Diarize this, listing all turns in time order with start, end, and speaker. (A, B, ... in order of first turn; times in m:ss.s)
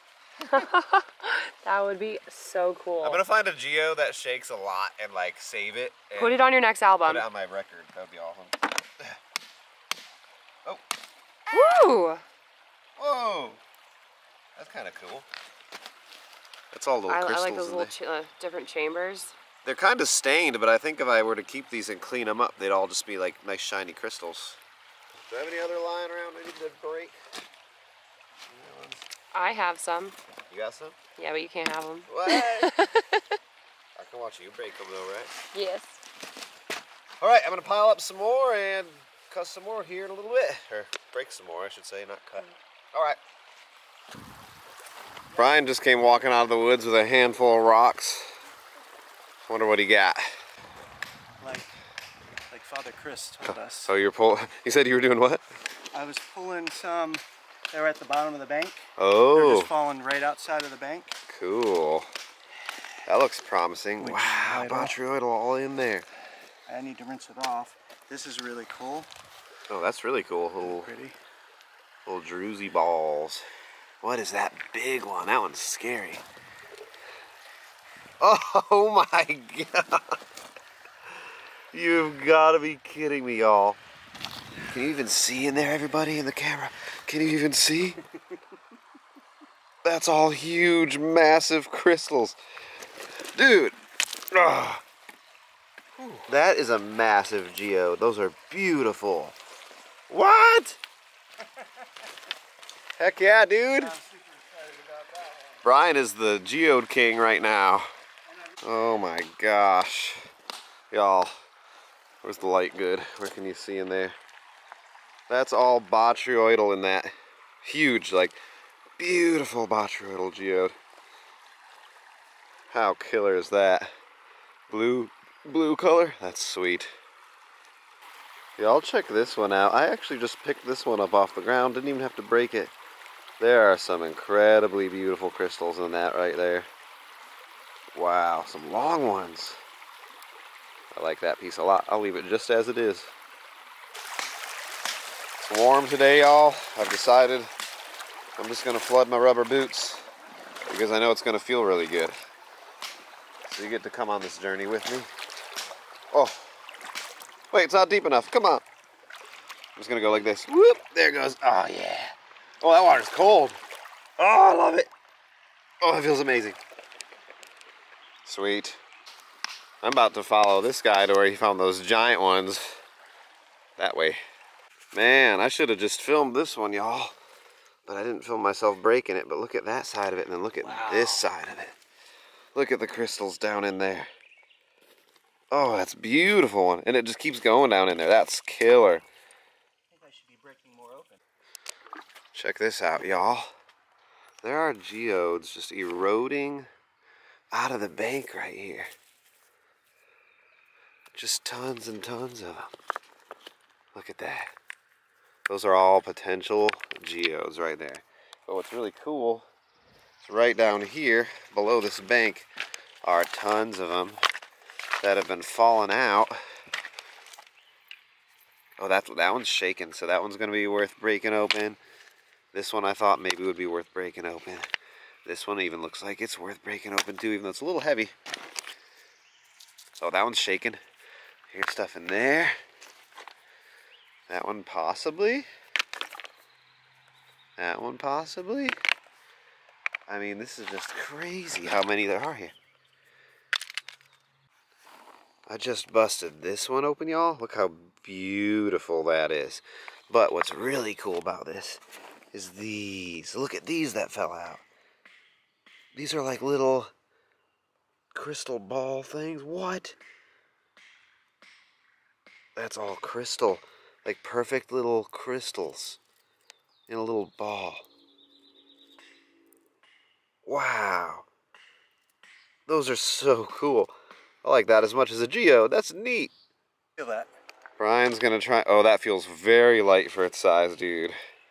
0:00.4-0:03.2 A
0:03.0-0:06.4 B
0:06.2-0:07.2 A
0:07.0-0:09.2 B
0:11.5-0:12.2 A
0:13.0-0:13.6 B
0:14.6-0:15.3 B
0:16.7-0:17.9 B
0:17.1-0:19.4 A
0:19.6-0:24.6 B
0:25.3-0:27.2 B
0:28.5-0:29.0 B
0:29.3-0:30.2 A
0:30.5-0:31.0 B
0:31.2-0:33.2 A
0:32.1-0:32.7 B
0:34.0-0:35.3 B
0:35.5-0:36.0 A
0:37.2-0:43.2 B
0:45.3-0:48.3 B
0:49.4-0:50.3 B
0:51.4-0:51.7 C
0:52.5-0:53.9 C
0:53.8-0:55.4 B
0:55.9-1:01.1 C
0:59.0-0:59.7 B
1:01.3-1:02.1 B
1:03.1-1:06.0 B
1:04.0-1:05.0 C
1:06.7-1:09.1 C
1:09.7-1:10.9 B
1:10.6-1:11.2 C
1:12.0-1:13.4 B
1:14.0-1:16.2 B
1:18.2-1:20.2 B
1:21.7-1:23.8 B
1:24.7-1:28.0 B
1:29.8-1:32.4 B
1:33.3-1:33.8 B
1:34.3-1:34.8 B
1:35.9-1:36.2 C
1:36.3-1:39.4 B
1:40.1-1:40.8 B
1:41.4-1:42.1 C
1:43.0-1:44.0 B
1:43.8-1:45.6 C
1:45.6-1:47.9 B
1:48.3-1:48.7 C
1:48.6-1:50.2 B
1:50.9-1:51.3 B
1:52.2-1:54.2 B
1:55.3-1:58.4 B
1:59.0-2:00.7 B
2:02.7-2:03.9 B
2:04.7-2:06.9 B
2:08.6-2:12.7 B
2:13.4-2:16.7 B
2:17.9-2:19.6 B
2:20.9-2:23.1 B
2:25.4-2:27.5 B
2:28.4-2:30.0 B
2:30.7-2:32.1 B
2:33.4-2:35.1 B
2:36.1-2:36.6 B
2:37.5-2:38.6 B
2:39.8-2:43.6 B
2:44.2-2:44.9 B
2:45.8-2:46.6 B
2:48.2-2:48.8 B
2:49.8-2:52.8 B
2:53.8-2:54.2 B
2:54.9-2:57.1 B
2:57.9-3:01.8 B
3:00.6-3:01.3 C
3:02.5-3:04.1 B
3:05.5-3:09.0 B
3:09.9-3:11.2 C
3:12.3-3:13.5 B
3:14.4-3:16.7 B
3:17.5-3:18.9 B
3:21.1-3:22.7 B
3:23.9-3:24.5 B
3:25.5-3:29.5 B
3:30.2-3:32.5 B
3:33.0-3:34.2 B
3:35.0-3:36.4 B
3:38.8-3:41.8 B
3:42.5-3:44.6 B
3:45.2-3:48.1 B
3:50.0-3:50.8 B
3:51.5-3:52.6 B
3:54.3-3:55.5 B
3:57.6-3:58.8 B
4:00.1-4:02.5 B
4:05.5-4:11.8 B
4:12.3-4:14.6 B
4:15.9-4:16.9 B
4:18.1-4:20.0 B
4:22.6-4:26.0 B
4:26.9-4:27.8 B
4:30.4-4:31.3 B
4:32.7-4:33.9 B
4:34.4-4:36.3 B
4:37.0-4:37.3 C
4:37.8-4:41.2 B